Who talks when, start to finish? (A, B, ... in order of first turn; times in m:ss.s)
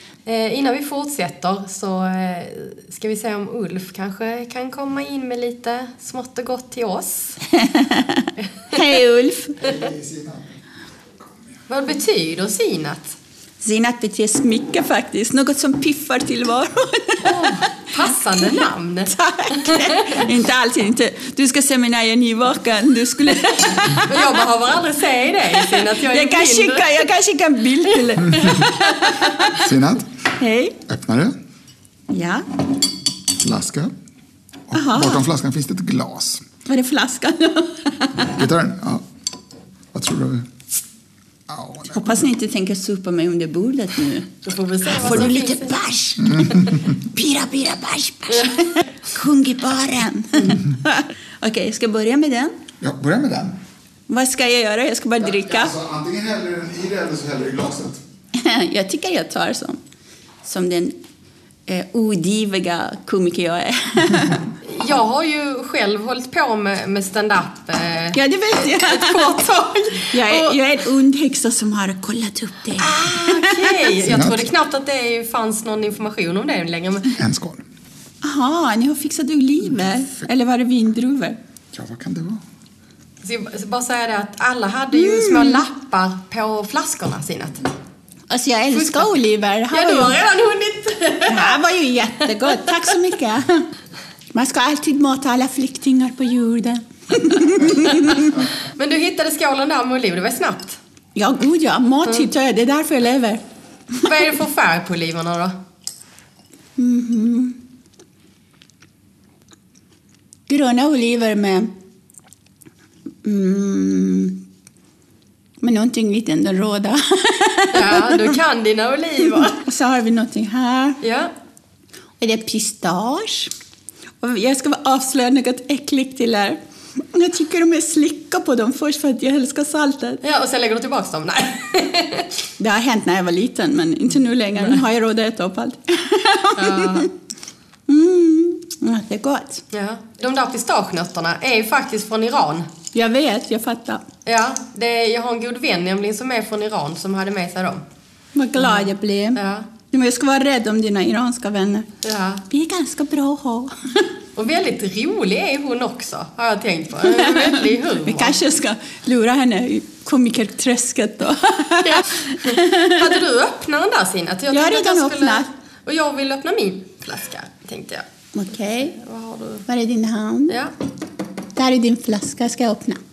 0:00.3-0:07.4 A
0:07.5-0:09.7 B
0:09.6-0:10.4 C
0:11.7-0:13.2 A
0:13.6-0:18.4 B
0:17.2-0:20.2 A
0:19.1-0:24.4 B
0:24.0-0:26.9 A
0:25.5-0:29.5 B
0:28.4-0:29.1 A
0:29.5-0:30.1 C
0:30.3-0:30.8 B
0:30.9-0:31.4 C
0:32.1-0:32.5 B
0:33.4-0:33.9 C
0:34.7-0:36.5 C
0:34.7-0:35.3 B
0:36.7-0:38.3 B
0:38.2-0:39.0 C
0:39.9-0:40.5 C
0:41.5-0:42.2 C
0:41.8-0:52.6 B
0:44.5-0:45.7 A
0:46.2-0:46.6 C
0:48.3-0:48.8 A
0:52.8-0:53.6 C
0:54.1-0:55.8 B
0:55.2-0:58.0 C
0:58.3-0:59.8 B
1:00.4-1:01.0 B
1:01.7-1:04.5 B
1:04.6-1:08.2 A
1:08.1-1:09.4 B
1:08.7-1:10.6 A
1:10.1-1:13.9 B
1:12.8-1:17.1 A
1:14.0-1:14.5 C
1:17.2-1:17.6 C
1:18.2-1:21.4 B
1:21.7-1:22.4 C
1:23.2-1:27.6 A
1:24.9-1:25.6 B
1:28.3-1:30.2 B
1:28.7-1:29.1 A
1:29.7-1:31.6 A
1:31.3-1:33.7 B
1:34.3-1:38.4 B
1:38.8-1:40.8 A
1:41.2-1:43.4 B
1:44.0-1:45.6 A
1:46.8-1:47.6 B
1:50.5-1:51.8 B
1:53.2-1:54.4 B
1:55.6-1:58.4 B
1:57.7-1:59.6 A
1:59.4-2:01.0 B
2:01.0-2:01.3 A
2:02.2-2:03.5 B
2:04.2-2:10.2 B
2:10.2-2:12.3 A
2:12.6-2:17.1 B
2:16.6-2:17.1 A
2:17.9-2:19.6 B
2:19.7-2:22.7 A
2:22.9-2:24.1 B
2:24.3-2:27.8 A
2:28.4-2:31.9 B
2:28.6-2:29.7 A
2:32.0-2:32.4 A
2:32.5-2:34.1 B
2:34.4-2:38.4 A
2:37.0-2:43.2 B
2:41.8-2:48.1 A
2:44.5-2:45.5 B
2:48.3-2:49.0 B
2:49.0-2:49.6 A
2:49.7-2:50.6 B
2:51.6-2:53.0 B